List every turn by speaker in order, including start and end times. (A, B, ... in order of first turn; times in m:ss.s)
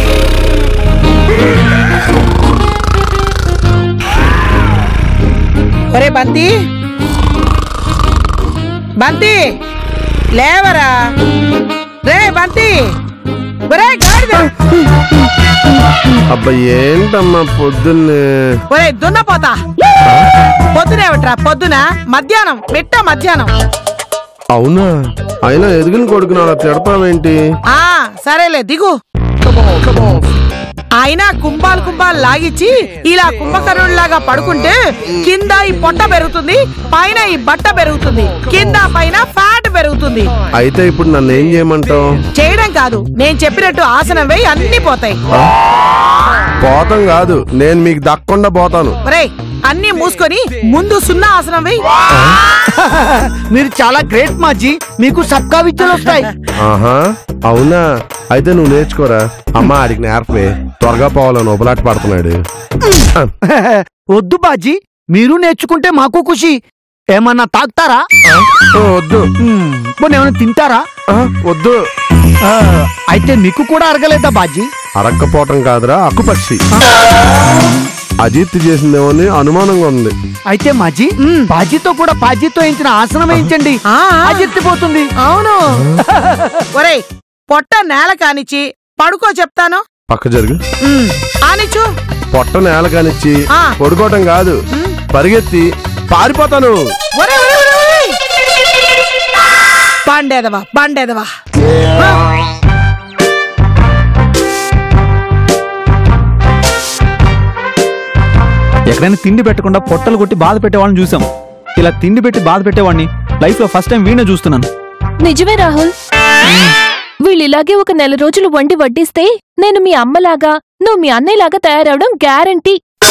0:05.9-0:06.5 A
0:09.0-0:09.4 A
0:10.4-0:10.9 A
0:12.0-0:12.7 A
0:13.7-0:14.4 A
0:16.3-0:18.6 B
0:18.7-0:19.5 A
0:20.8-0:23.5 A
0:24.5-0:24.9 B
0:25.4-0:27.4 B
0:27.7-0:28.9 A
0:31.0-0:34.7 A
0:35.2-0:40.3 A
0:40.6-0:42.0 B
0:42.4-0:45.2 A
0:46.6-0:49.0 B
0:49.1-0:51.8 A
0:52.8-0:56.3 C
0:56.6-0:57.0 B
0:57.5-1:02.4 B
1:03.5-1:06.5 C
1:07.1-1:08.0 C
1:08.3-1:09.2 B
1:09.4-1:10.8 C
1:11.1-1:11.8 B
1:13.1-1:14.6 C
1:15.0-1:16.6 B
1:18.2-1:20.1 B
1:20.5-1:25.1 C
1:25.3-1:25.6 A
1:26.1-1:26.6 C
1:27.5-1:29.8 A
1:30.1-1:30.6 B
1:30.9-1:31.8 A
1:32.3-1:34.6 B
1:35.1-1:36.8 B
1:37.2-1:38.1 A
1:40.1-1:41.2 A
1:48.9-1:51.2 D
1:51.8-1:54.7 D
1:55.2-1:55.9 E
1:57.3-2:02.8 E